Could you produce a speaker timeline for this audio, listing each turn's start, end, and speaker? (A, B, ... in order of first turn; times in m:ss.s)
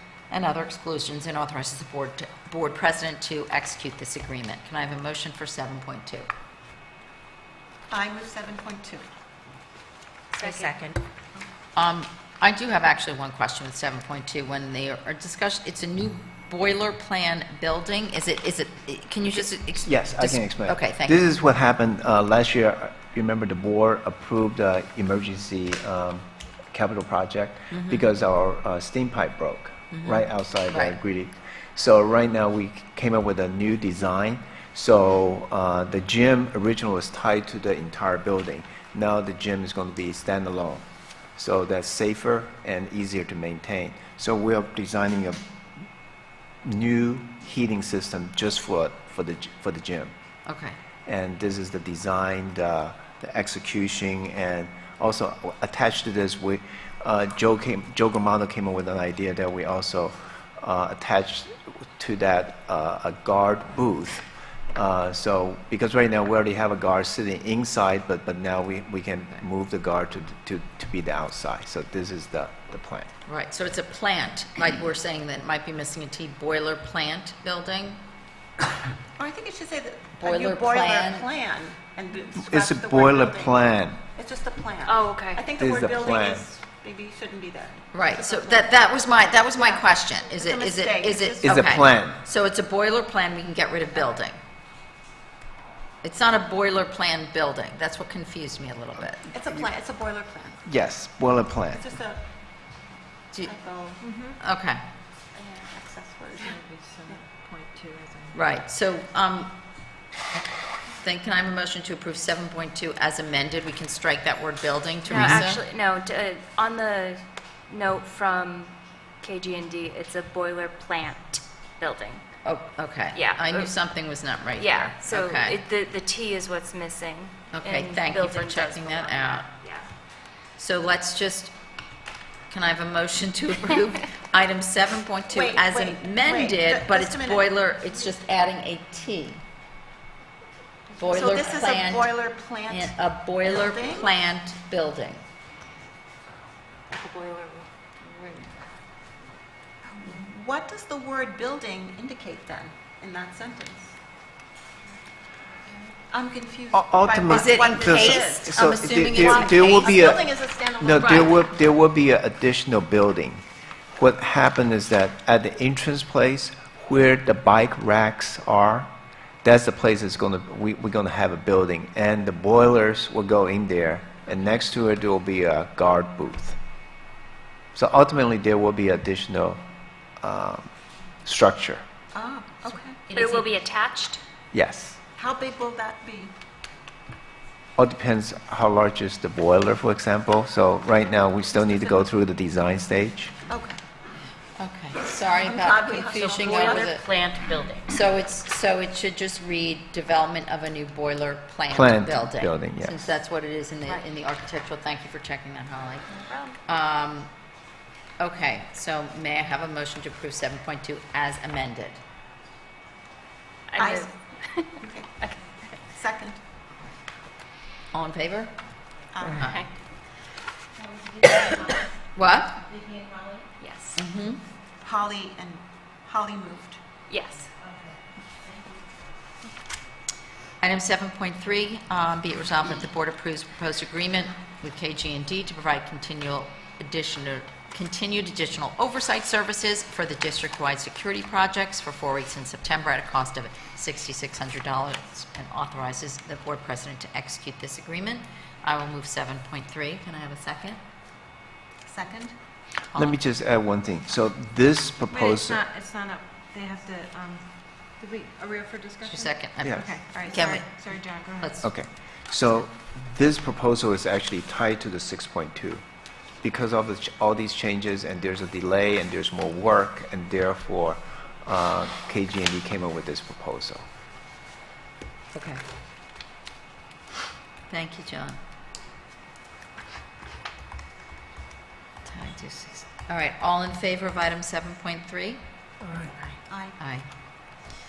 0:00.3-0:06.3 A
0:07.9-0:09.1 B
0:10.4-0:10.8 C
0:11.8-0:21.3 A
0:19.8-0:40.8 D
0:27.7-0:28.0 A
0:29.9-0:31.0 A
0:41.4-0:45.4 D
0:46.6-0:50.1 D
0:50.4-0:50.8 A
0:51.0-1:13.1 D
1:13.2-1:18.0 A
1:19.2-1:28.9 B
1:20.2-1:21.3 A
1:22.3-1:24.0 D
1:24.8-1:25.4 C
1:25.6-1:26.4 D
1:27.9-1:34.4 A
1:29.6-1:31.6 B
1:31.4-1:32.2 D
1:36.0-1:39.3 A
1:39.3-1:40.6 B
1:40.6-1:41.8 D
1:41.8-1:42.2 B
1:43.4-1:44.0 B
1:44.0-1:44.4 E
1:44.4-1:44.8 A
1:45.3-1:46.6 B
1:46.4-1:48.4 E
1:48.3-1:49.6 A
1:51.0-1:55.6 A
1:55.0-2:02.2 C
1:55.2-1:55.4 D
2:02.4-2:05.6 A
2:03.1-2:03.8 C
2:04.5-2:09.9 C
2:07.5-2:09.5 A
2:10.6-2:11.5 A
2:12.5-2:19.4 A
2:15.3-2:17.5 B
2:21.0-2:22.1 A
2:21.0-2:24.1 B
2:22.7-2:25.2 A
2:26.9-2:28.5 E
2:29.9-2:34.0 B
2:36.1-2:38.5 B
2:36.7-2:40.3 D
2:37.3-2:40.2 A
2:39.1-2:41.5 B
2:40.8-2:43.4 D
2:44.0-2:48.9 D
2:49.4-2:56.6 D
2:57.7-2:59.6 D
3:00.2-3:00.7 D
3:01.2-3:01.8 D
3:02.1-3:03.0 B
3:03.1-3:04.2 C
3:03.2-3:03.4 E
3:04.5-3:05.0 D
3:05.2-3:06.3 B
3:07.8-3:13.3 D
3:13.5-3:13.8 B
3:14.6-3:17.1 A
3:15.3-3:16.9 B
3:16.1-3:17.8 E
3:17.8-3:26.1 A
3:21.7-3:23.1 D
3:26.6-3:27.3 A
3:28.2-3:32.0 A
3:33.7-3:35.4 C
3:33.8-3:34.1 B
3:34.7-3:36.4 B
3:37.9-3:38.5 A
3:39.1-3:39.6 B
3:39.4-3:39.7 C
3:42.1-3:42.6 A
3:43.6-3:44.0 C
3:44.0-3:44.4 A
3:44.8-3:46.8 B
3:47.1-3:47.5 C
3:50.6-4:10.8 A
4:11.8-4:12.3 B
4:12.9-4:15.6 D
4:15.1-4:21.5 E
4:19.0-4:20.7 A
4:19.6-4:19.9 D
4:20.1-4:21.0 B
4:21.4-4:21.7 A
4:21.6-4:25.8 D
4:26.4-4:33.9 D
4:35.3-4:35.6 A
4:37.7-4:38.4 A
4:42.0-4:45.4 A
4:46.5-4:46.8 B
4:46.8-4:47.1 A